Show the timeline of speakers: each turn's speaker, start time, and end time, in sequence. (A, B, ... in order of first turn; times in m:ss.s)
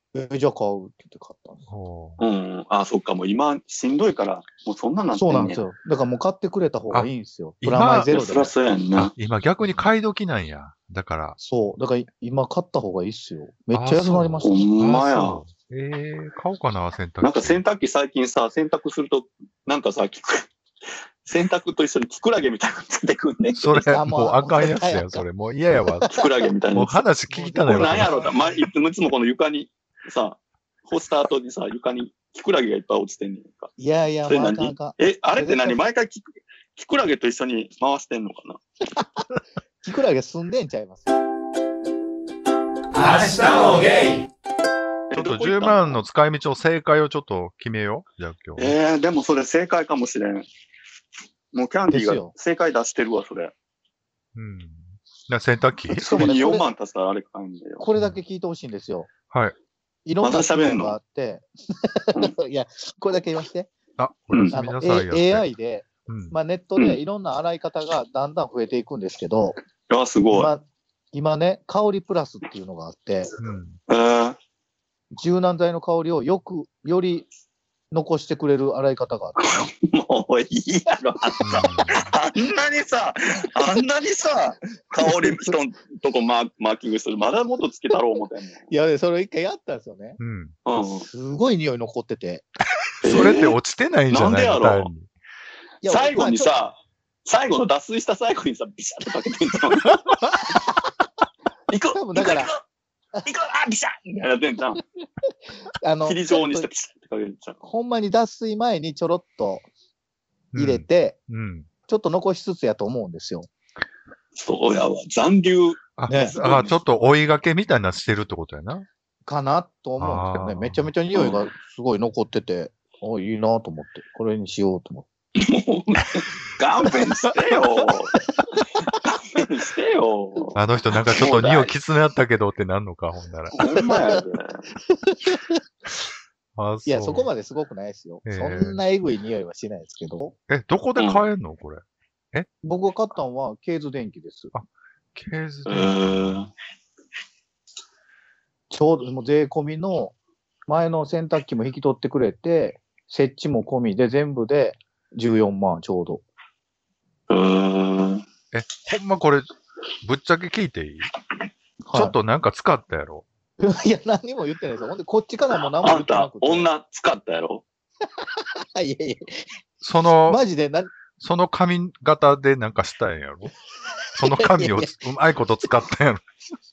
0:00.1-0:01.6 A
0:01.7-0:02.2 B
0:02.2-0:05.7 C
0:05.2-0:08.5 A
0:07.6-0:08.2 B
0:08.0-0:09.1 C
0:09.0-0:11.4 B
0:11.4-0:14.6 A
0:13.7-0:17.6 B
0:14.4-0:15.4 C
0:17.2-0:20.5 C
0:21.2-0:24.0 C
0:23.5-0:28.3 B
0:23.9-0:25.2 A
0:26.1-0:27.0 C
0:27.3-0:28.6 A
0:27.6-0:33.7 C
0:33.8-0:35.8 A
0:34.2-0:38.6 C
0:39.8-0:41.1 A
0:43.0-0:44.1 C
0:45.1-0:46.0 C
0:45.1-0:48.7 B
0:48.6-0:50.4 C
0:51.5-0:53.5 C
0:51.9-0:52.3 A
0:54.3-0:56.3 B
0:55.9-0:57.8 C
0:56.0-0:56.7 A
0:57.8-0:59.1 A
1:00.0-1:03.7 A
1:00.2-1:01.0 C
1:04.0-1:05.5 B
1:04.3-1:04.6 C
1:04.5-1:09.6 A
1:06.1-1:06.3 B
1:09.9-1:10.5 C
1:10.3-1:13.3 A
1:13.4-1:13.8 B
1:13.9-1:14.4 C
1:15.1-1:17.3 A
1:17.9-1:19.4 A
1:19.5-1:28.6 C
1:21.4-1:22.1 B
1:25.1-1:25.5 A
1:28.7-1:30.2 A
1:30.2-1:30.6 B
1:30.6-1:31.1 C
1:30.8-1:32.4 A
1:33.0-1:35.1 B
1:33.0-1:33.6 C
1:34.1-1:34.9 C
1:35.8-1:36.6 A
1:35.8-1:40.0 C
1:41.7-1:42.6 C
1:41.9-1:42.5 A
1:43.2-1:44.8 C
1:45.8-1:46.7 A
1:46.0-1:47.6 C
1:47.6-1:49.7 A
1:50.5-1:51.7 B
1:50.6-1:51.2 A
1:51.9-1:53.5 A
1:54.4-1:56.8 C
1:56.0-1:58.8 B
1:56.1-1:56.4 A
1:59.2-2:05.1 A
2:00.0-2:00.9 B
2:01.1-2:01.5 C
2:05.4-2:08.1 C
2:09.0-2:10.6 C
2:10.5-2:13.6 B
2:11.1-2:11.7 C
2:13.5-2:14.6 C
2:13.7-2:14.2 A
2:15.1-2:15.5 A
2:16.6-2:17.3 B
2:16.8-2:20.4 A
2:18.2-2:18.8 B
2:20.5-2:22.5 B
2:21.0-2:21.3 C
2:22.6-2:24.5 A
2:24.5-2:26.4 B
2:25.6-2:26.5 C
2:28.7-2:30.1 A
2:30.7-2:36.2 A
2:37.3-2:38.2 C
2:38.5-2:39.5 B
2:40.0-2:41.1 B
2:41.8-2:42.1 A
2:41.9-2:43.2 B
2:43.6-2:46.7 A
2:45.6-2:47.6 C
2:48.7-2:49.4 A
2:49.8-2:50.4 B
2:50.3-2:50.9 A
2:51.2-2:53.5 B
2:54.2-2:56.2 B
2:54.2-2:54.9 A